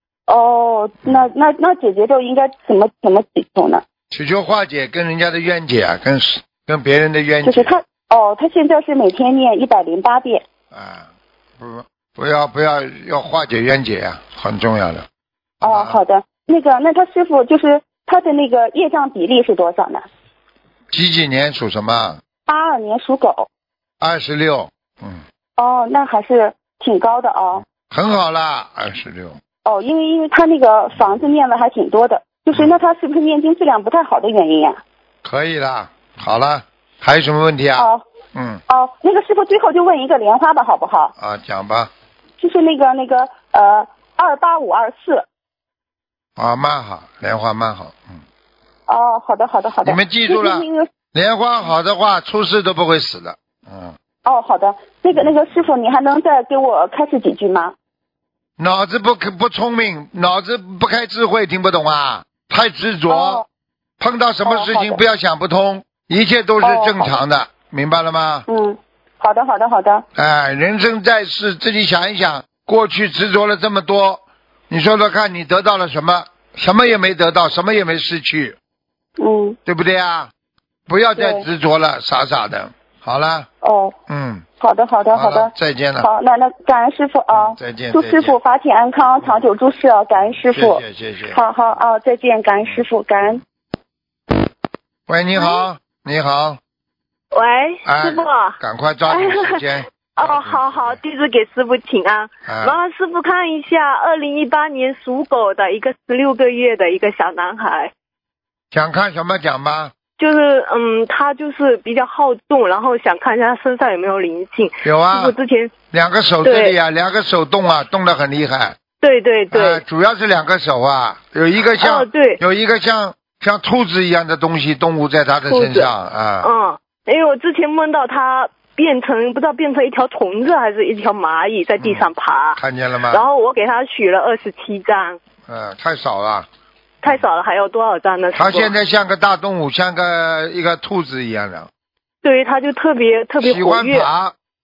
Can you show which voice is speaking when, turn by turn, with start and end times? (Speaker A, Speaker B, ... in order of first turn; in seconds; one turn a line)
Speaker A: 0.3-3.8
Speaker B: 4.1-7.7
Speaker A: 7.4-10.4
Speaker B: 10.7-11.1
Speaker B: 11.6-15.1
Speaker B: 15.6-16.0
Speaker A: 15.6-20.1
Speaker B: 20.9-22.2
Speaker A: 22.5-23.5
Speaker B: 24.0-25.2
Speaker A: 25.6-27.6
Speaker B: 27.7-29.4
Speaker A: 29.6-34.8
Speaker B: 35.2-38.6
Speaker A: 37.8-38.0
Speaker A: 38.7-41.1
Speaker B: 41.2-41.9
Speaker A: 42.4-45.2
Speaker B: 46.4-48.2
Speaker A: 48.9-50.9
Speaker B: 49.8-54.0
Speaker A: 54.2-57.7
Speaker B: 58.6-63.4
Speaker A: 63.1-63.4
Speaker B: 64.0-68.5
Speaker A: 64.4-65.0
Speaker A: 66.6-67.2
Speaker A: 68.5-70.0
Speaker B: 70.1-78.6
Speaker A: 79.2-79.6
Speaker B: 79.7-80.3
Speaker B: 80.9-83.5
Speaker A: 81.2-81.5
Speaker A: 83.6-83.9
Speaker B: 84.1-84.4
Speaker A: 84.6-93.4
Speaker B: 85.1-86.1
Speaker B: 87.3-88.3
Speaker B: 90.4-91.4
Speaker B: 95.1-96.6
Speaker C: 97.3-107.9
Speaker B: 97.8-101.0
Speaker B: 102.5-102.8
Speaker B: 108.7-109.9
Speaker C: 110.2-115.8
Speaker B: 114.8-115.3
Speaker B: 115.9-118.8
Speaker C: 116.4-116.8
Speaker C: 119.0-119.8
Speaker B: 119.5-126.5
Speaker C: 121.8-122.4
Speaker C: 125.5-125.9
Speaker C: 126.4-135.2
Speaker B: 131.8-133.2
Speaker B: 135.5-136.5
Speaker C: 137.0-138.7
Speaker B: 138.3-141.7
Speaker C: 142.2-144.1
Speaker B: 143.4-144.3